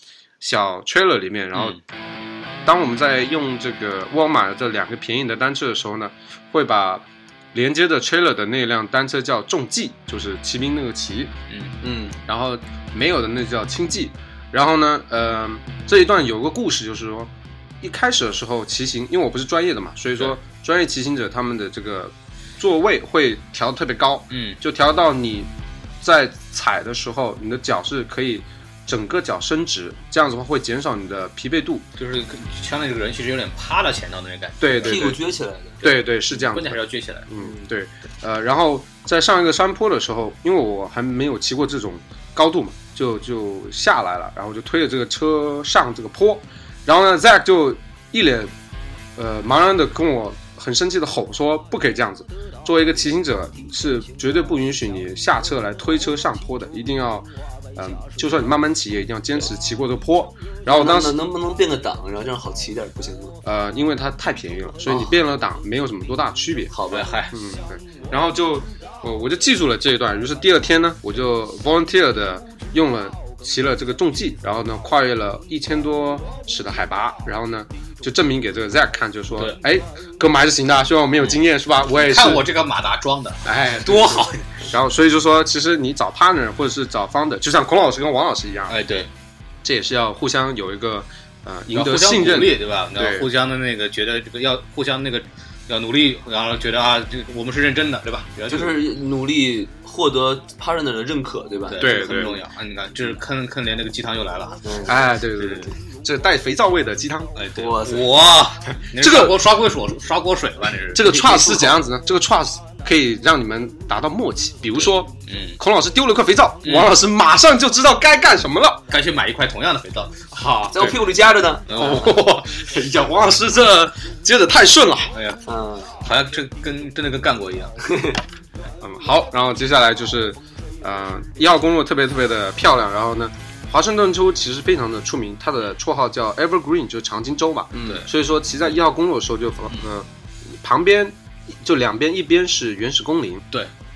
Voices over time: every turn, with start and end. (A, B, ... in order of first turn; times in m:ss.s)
0:00.4-0:01.8 A
0:01.5-0:01.8 B
0:02.6-0:11.3 A
0:11.8-0:12.2 C
0:12.2-0:25.5 A
0:24.3-0:24.6 B
0:26.0-0:31.8 A
0:32.0-0:35.2 B
0:34.6-0:35.2 A
0:34.8-0:35.8 C
0:35.8-0:48.5 A
0:35.8-0:37.3 B
0:49.2-1:01.2 A
1:00.7-1:03.4 C
1:03.4-1:06.7 A
1:04.9-1:05.1 C
1:06.7-1:07.1 C
1:06.9-1:07.3 B
1:07.3-1:22.4 A
1:21.9-1:24.6 B
1:23.4-1:28.8 A
1:28.7-1:29.1 B
1:29.6-1:33.3 A
1:31.7-1:38.8 B
1:38.5-1:42.2 C
1:41.7-1:45.7 B
1:41.8-1:42.4 A
1:44.6-1:44.9 C
1:44.9-1:47.3 A
1:47.4-1:51.3 B
1:47.5-1:48.1 C
1:49.0-1:49.4 A
1:50.9-1:58.8 A
1:51.0-1:51.8 C
1:54.8-1:55.6 B
1:56.6-1:57.0 B
1:58.9-2:00.9 B
2:00.7-2:02.0 C
2:00.7-2:01.0 A
2:01.7-2:02.2 B
2:01.7-2:05.1 A
2:05.1-2:05.4 B
2:05.4-2:05.9 C
2:06.0-2:07.7 B
2:07.8-2:08.2 C
2:08.8-2:23.4 A